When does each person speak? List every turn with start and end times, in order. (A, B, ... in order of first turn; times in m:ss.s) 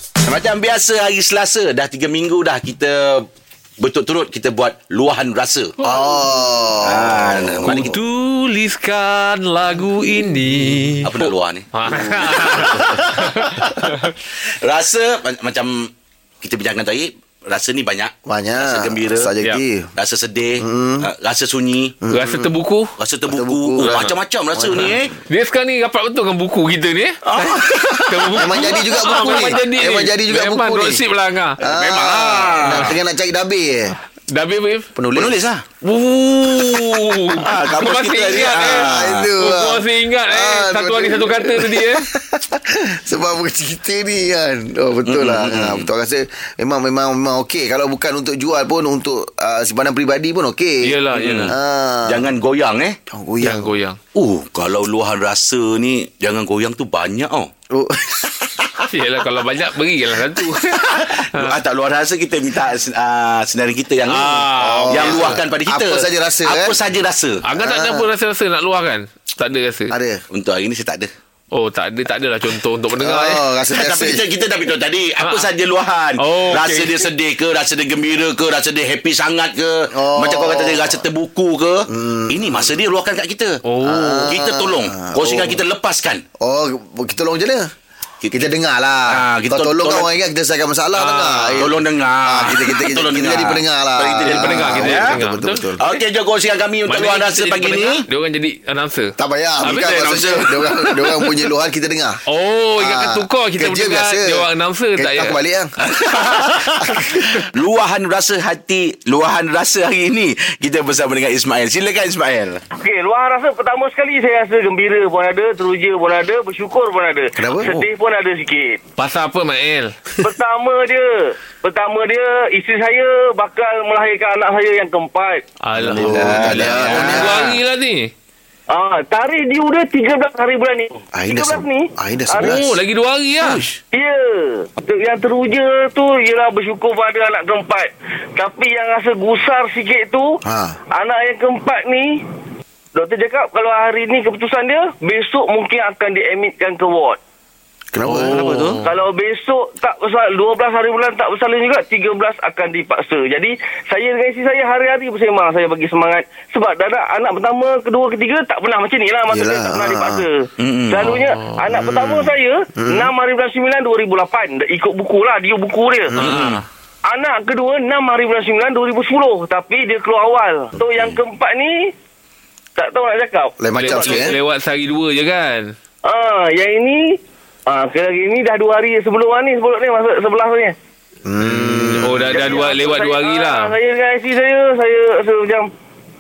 0:00.2-0:03.3 A
0:03.8-0:05.8 A
0:05.8-0:07.9 B
0:06.8-0:08.0 A
0:07.6-0:14.1 C
0:11.0-0:14.1 A
0:14.6-0:15.9 A
0:16.4-0:19.3 A
0:18.3-0:19.9 B
0:20.0-0:22.0 A
0:20.6-0:21.1 B
0:22.0-0:22.5 B
0:22.1-0:22.9 C
0:23.0-0:25.1 A
0:23.3-0:25.0 B
0:25.3-0:31.6 C
0:27.2-0:29.5 A
0:28.4-0:31.0 B
0:31.6-0:34.0 B
0:31.6-0:33.0 A
0:32.6-0:33.0 C
0:34.3-0:34.9 C
0:35.0-0:35.4 B
0:35.1-0:35.6 A
0:35.8-0:42.1 C
0:36.4-0:39.3 A
0:38.6-0:50.9 B
0:45.1-0:45.9 A
0:50.8-0:51.5 C
0:51.1-0:51.5 A
0:51.5-0:52.3 B
0:52.1-0:53.0 A
0:53.1-0:53.7 B
0:53.4-0:54.0 C
0:54.2-0:57.5 A
0:57.7-0:58.8 B
0:58.9-1:01.6 C
1:00.6-1:07.4 A
1:04.1-1:05.4 C
1:04.6-1:06.8 B
1:07.5-1:09.9 C
1:07.5-1:08.1 B
1:09.9-1:10.2 B
1:10.3-1:11.1 A
1:11.5-1:13.4 C
1:13.0-1:14.2 B
1:13.7-1:23.6 A
1:15.2-1:15.5 C
1:16.2-1:17.1 C
1:19.9-1:21.0 B
1:21.9-1:22.7 B
1:23.6-1:24.4 C
1:23.8-1:25.6 B
1:24.3-1:26.2 A
1:26.4-1:27.7 B
1:28.3-1:35.8 B
1:29.1-1:30.1 A
1:31.0-1:35.2 A
1:34.2-1:36.0 C
1:35.8-1:38.1 A
1:36.9-1:40.1 C
1:39.2-1:42.2 B
1:39.6-1:41.0 A
1:42.3-1:45.4 C
1:42.8-1:47.2 B
1:45.9-1:52.6 A
1:46.8-1:47.3 C
1:52.8-1:58.8 D
1:57.4-1:57.8 B
1:59.0-2:00.0 C
2:00.2-2:05.4 D
2:05.6-2:08.1 C
2:05.8-2:07.5 B
2:05.8-2:07.6 A
2:08.7-2:12.6 D
2:11.1-2:12.7 B
2:12.4-2:13.6 C
2:13.4-2:13.8 A
2:13.9-2:20.4 D
2:20.4-2:20.8 B
2:21.0-2:22.2 D
2:23.0-2:27.2 D
2:27.9-2:28.4 B
2:28.1-2:29.0 C
2:28.2-2:28.8 A
2:28.8-2:46.2 D
2:39.3-2:40.3 B
2:40.6-2:41.1 A
2:41.0-2:41.6 C
2:41.7-2:43.1 B
2:46.2-2:46.6 C
2:46.2-2:46.6 A
2:47.1-2:51.9 D
2:50.8-2:51.1 B
2:52.8-2:54.3 D
2:53.6-2:54.4 B
2:53.8-2:55.7 C
2:56.0-3:00.8 D
3:01.3-3:02.6 B
3:01.4-3:03.7 C
3:02.3-3:05.7 D